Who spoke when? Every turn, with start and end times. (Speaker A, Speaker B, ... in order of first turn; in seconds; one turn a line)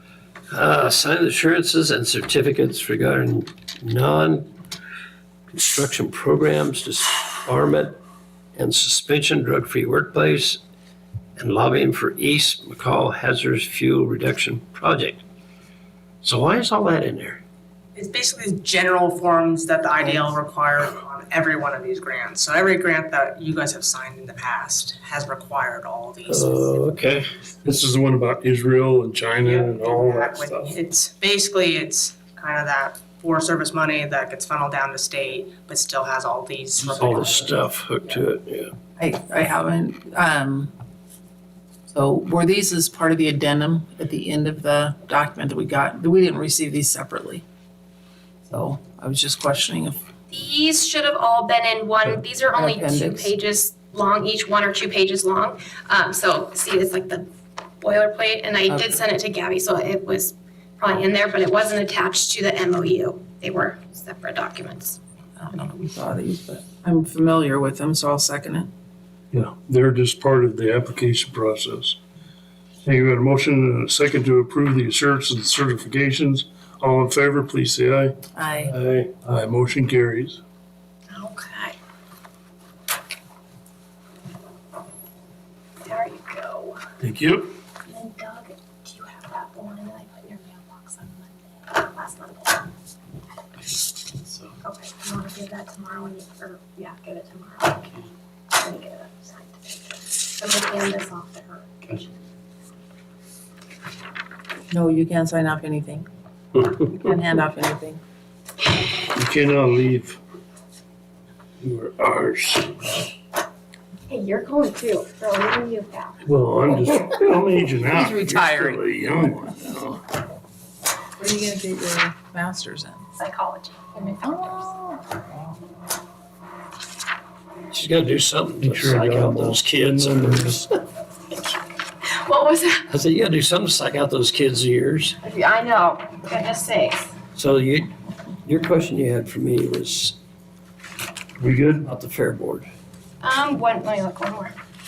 Speaker A: 0.5-4.5
Speaker A: 5.5-8.0
Speaker A: 8.6-10.6
Speaker A: 11.4-15.2
Speaker A: 16.2-17.4
Speaker B: 17.9-26.9
Speaker C: 20.0-20.3
Speaker A: 26.2-27.3
Speaker D: 27.6-30.7
Speaker B: 29.3-37.6
Speaker A: 36.9-38.7
Speaker C: 39.0-40.7
Speaker C: 41.9-47.4
Speaker C: 48.5-50.0
Speaker E: 50.3-57.3
Speaker C: 52.0-53.3
Speaker E: 57.8-65.6
Speaker C: 58.7-59.0
Speaker C: 65.5-68.7
Speaker D: 69.3-72.0
Speaker D: 72.8-78.2
Speaker C: 78.3-78.8
Speaker A: 78.8-79.1
Speaker D: 79.1-80.4
Speaker E: 81.1-81.8
Speaker E: 85.8-86.8
Speaker D: 87.0-87.5
Speaker E: 87.9-92.7
Speaker E: 94.6-97.9
Speaker E: 98.5-102.0
Speaker C: 104.7-108.0
Speaker D: 109.1-110.2
Speaker D: 111.6-112.8
Speaker E: 114.1-116.2
Speaker D: 116.2-120.0
Speaker C: 117.9-118.8
Speaker C: 121.2-123.1
Speaker E: 123.2-124.8
Speaker C: 124.2-125.2
Speaker A: 127.7-130.7
Speaker D: 128.6-130.6
Speaker E: 132.1-132.9
Speaker A: 132.9-135.2
Speaker E: 135.2-137.1
Speaker A: 137.3-137.9
Speaker A: 138.4-140.2
Speaker D: 141.4-141.9
Speaker A: 141.8-142.7
Speaker E: 143.2-144.6